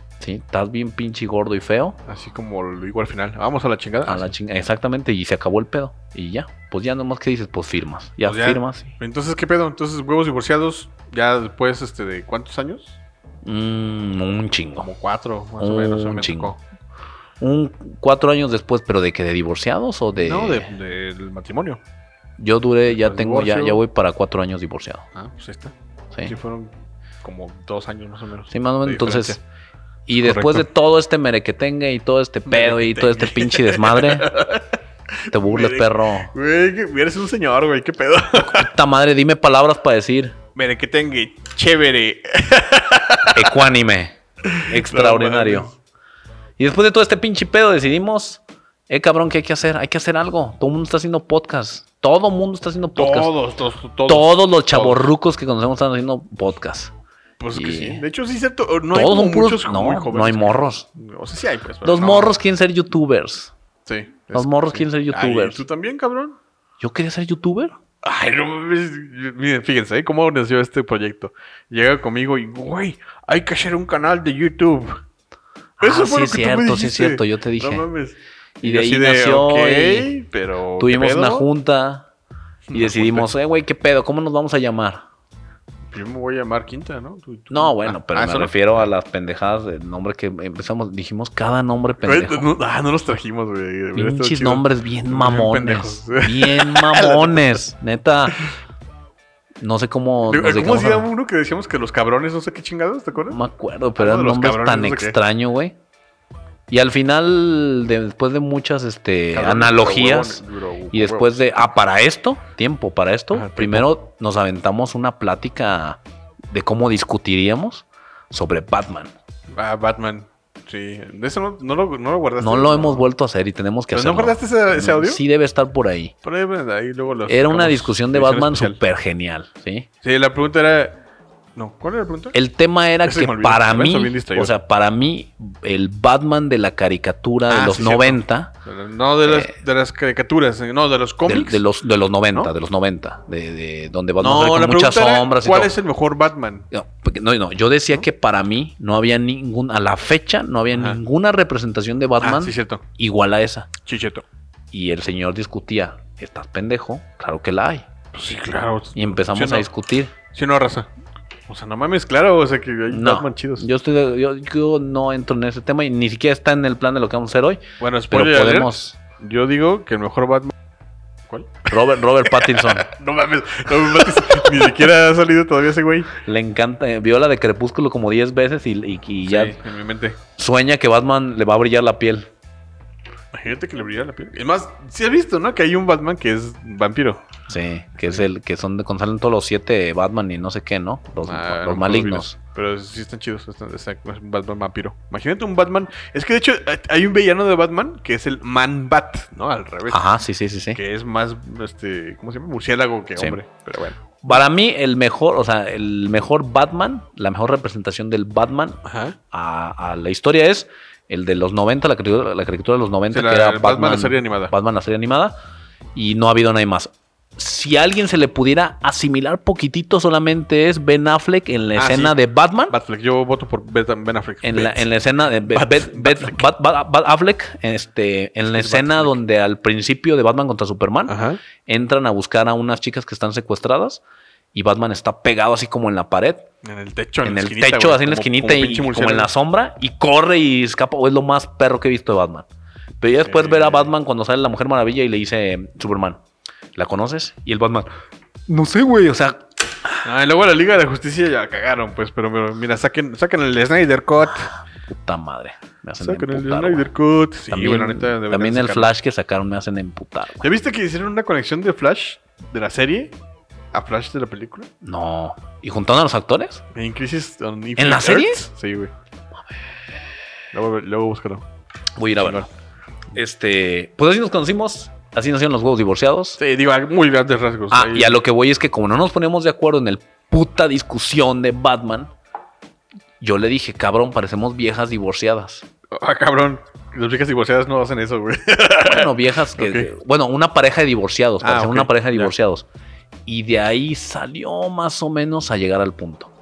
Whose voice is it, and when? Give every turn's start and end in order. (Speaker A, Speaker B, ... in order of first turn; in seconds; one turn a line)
Speaker A: 0.2-2.0
Speaker B: 2.1-4.3
Speaker A: 4.1-8.9
Speaker B: 8.2-13.0
Speaker A: 13.4-14.9
Speaker B: 14.8-16.6
Speaker A: 15.6-16.6
Speaker A: 17.4-20.7
Speaker B: 20.2-21.8
Speaker A: 22.4-25.1
Speaker B: 22.9-23.8
Speaker B: 25.1-26.7
Speaker B: 27.2-29.4
Speaker A: 28.5-29.4
Speaker A: 30.1-34.3
Speaker B: 30.2-30.7
Speaker B: 32.5-38.7
Speaker A: 35.3-36.3
Speaker A: 38.4-40.4
Speaker B: 40.5-43.6
Speaker A: 43.3-45.7
Speaker B: 44.5-45.8
Speaker A: 46.6-53.3
Speaker B: 53.0-55.1
Speaker A: 54.1-56.9
Speaker B: 57.4-62.4
Speaker A: 57.5-58.0
Speaker A: 58.9-60.9
Speaker A: 61.8-63.5
Speaker B: 63.9-66.4
Speaker A: 64.3-65.6
Speaker A: 66.8-67.8
Speaker B: 68.0-75.0
Speaker A: 75.8-77.8
Speaker B: 75.8-81.5
Speaker A: 78.6-80.1
Speaker A: 80.8-82.1
Speaker B: 82.7-83.3
Speaker A: 82.7-85.0
Speaker B: 85.9-88.5
Speaker A: 87.5-92.5
Speaker B: 92.0-97.6
Speaker A: 94.0-98.4
Speaker A: 99.6-101.1
Speaker B: 100.3-103.4
Speaker A: 103.3-105.8
Speaker B: 104.0-105.2
Speaker A: 106.7-116.0
Speaker B: 109.3-111.4
Speaker B: 113.3-113.9
Speaker A: 116.5-119.1
Speaker B: 119.5-123.1
Speaker A: 122.4-126.1
Speaker B: 123.9-125.2
Speaker B: 126.2-128.8
Speaker A: 127.3-129.9
Speaker B: 130.0-131.0
Speaker B: 131.6-132.4
Speaker A: 132.3-138.5
Speaker B: 133.0-134.6
Speaker B: 137.5-141.7
Speaker A: 139.3-139.5
Speaker A: 141.3-145.7
Speaker B: 144.2-146.7
Speaker A: 146.7-153.7
Speaker B: 150.7-151.0
Speaker B: 152.2-152.8
Speaker B: 153.8-154.2
Speaker A: 154.7-157.9
Speaker B: 158.1-159.7
Speaker A: 158.9-160.1
Speaker B: 160.3-160.9
Speaker B: 161.5-163.7
Speaker A: 162.9-169.0
Speaker B: 167.8-170.5
Speaker B: 171.3-176.1
Speaker A: 171.7-172.9
Speaker A: 176.2-179.6
Speaker B: 179.2-180.2
Speaker A: 180.4-182.3
Speaker B: 183.3-187.2
Speaker A: 187.5-192.4
Speaker B: 188.0-188.3
Speaker B: 191.2-200.1
Speaker A: 199.9-200.8
Speaker B: 200.8-204.4
Speaker A: 204.2-215.3
Speaker B: 208.8-209.2
Speaker B: 213.1-214.5
Speaker A: 215.9-222.7
Speaker B: 221.8-222.2
Speaker B: 222.7-224.9
Speaker A: 224.4-234.0
Speaker B: 225.5-226.5
Speaker B: 228.5-229.2
Speaker B: 231.1-231.4
Speaker A: 234.5-236.5
Speaker B: 236.6-239.3
Speaker A: 237.2-242.5
Speaker A: 243.0-246.2
Speaker B: 243.2-243.9
Speaker A: 246.8-247.9
Speaker A: 248.5-249.4
Speaker B: 250.0-254.5
Speaker A: 254.8-256.9
Speaker B: 256.0-258.9
Speaker A: 257.5-260.5
Speaker B: 260.4-263.2
Speaker B: 263.7-264.7
Speaker A: 264.8-266.6
Speaker B: 266.7-268.9
Speaker A: 267.8-268.4
Speaker B: 270.5-271.4
Speaker A: 272.0-272.5
Speaker B: 272.2-272.5
Speaker A: 273.1-276.4
Speaker B: 276.4-278.2
Speaker A: 277.7-282.1
Speaker A: 283.2-285.7
Speaker B: 285.9-289.9
Speaker A: 288.8-292.7
Speaker B: 291.4-292.4
Speaker A: 293.3-296.3